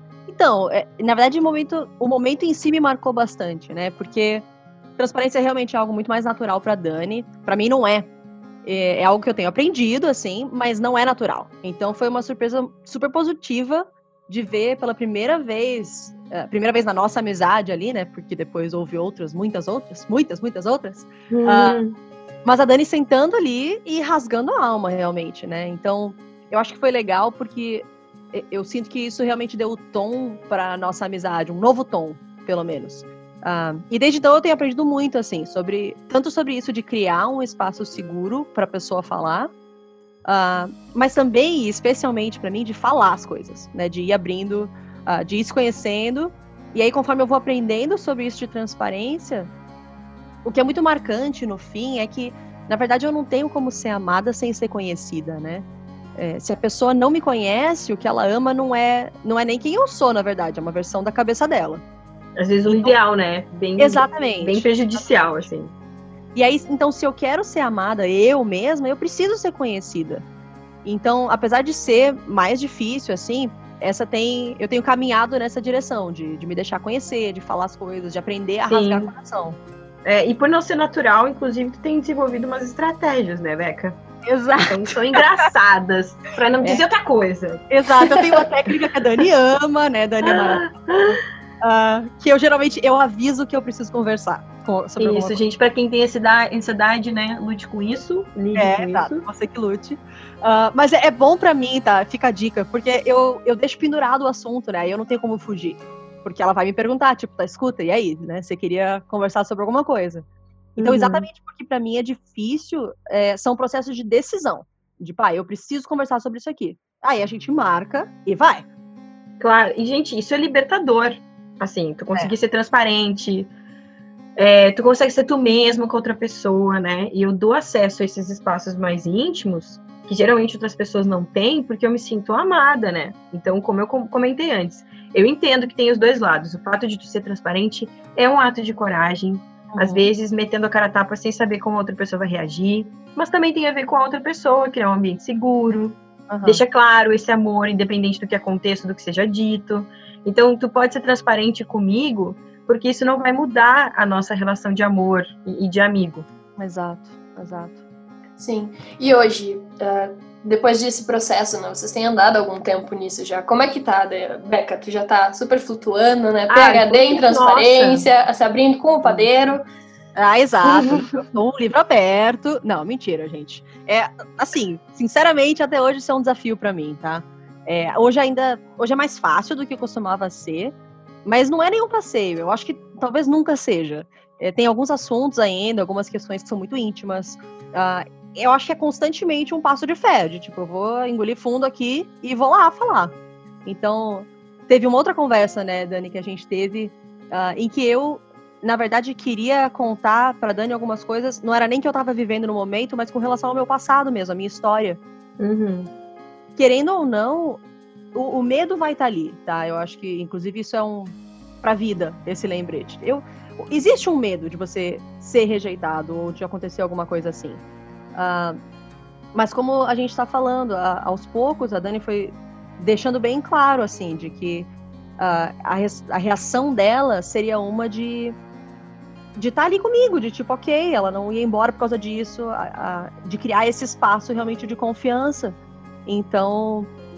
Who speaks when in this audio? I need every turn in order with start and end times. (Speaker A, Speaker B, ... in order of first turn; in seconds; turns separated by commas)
Speaker A: 0.3-4.5, Speaker A: 5.0-8.1, Speaker A: 8.6-21.8, Speaker B: 21.3-22.0, Speaker A: 22.4-39.5, Speaker A: 40.2-49.5, Speaker A: 50.4-61.8, Speaker B: 62.4-65.7, Speaker A: 62.7-63.0, Speaker A: 63.8-64.7, Speaker A: 66.3-70.2, Speaker A: 70.8-79.6, Speaker B: 78.7-79.1, Speaker B: 80.0-84.0, Speaker A: 84.2-85.2, Speaker B: 84.6-87.7, Speaker A: 87.7-90.9, Speaker B: 90.3-91.2, Speaker A: 91.6-95.4, Speaker B: 95.0-99.2, Speaker A: 98.5-110.3, Speaker B: 110.8-111.3, Speaker A: 110.8-118.7, Speaker B: 119.4-123.5, Speaker B: 124.4-156.3, Speaker A: 139.7-140.1, Speaker A: 146.3-146.6, Speaker A: 156.6-157.8, Speaker C: 158.4-169.6, Speaker B: 166.5-168.1, Speaker A: 170.2-205.0, Speaker B: 170.7-171.2, Speaker B: 205.4-205.9, Speaker A: 206.6-207.6, Speaker A: 208.1-217.6, Speaker A: 218.1-218.6, Speaker A: 219.3-228.4, Speaker A: 229.4-236.9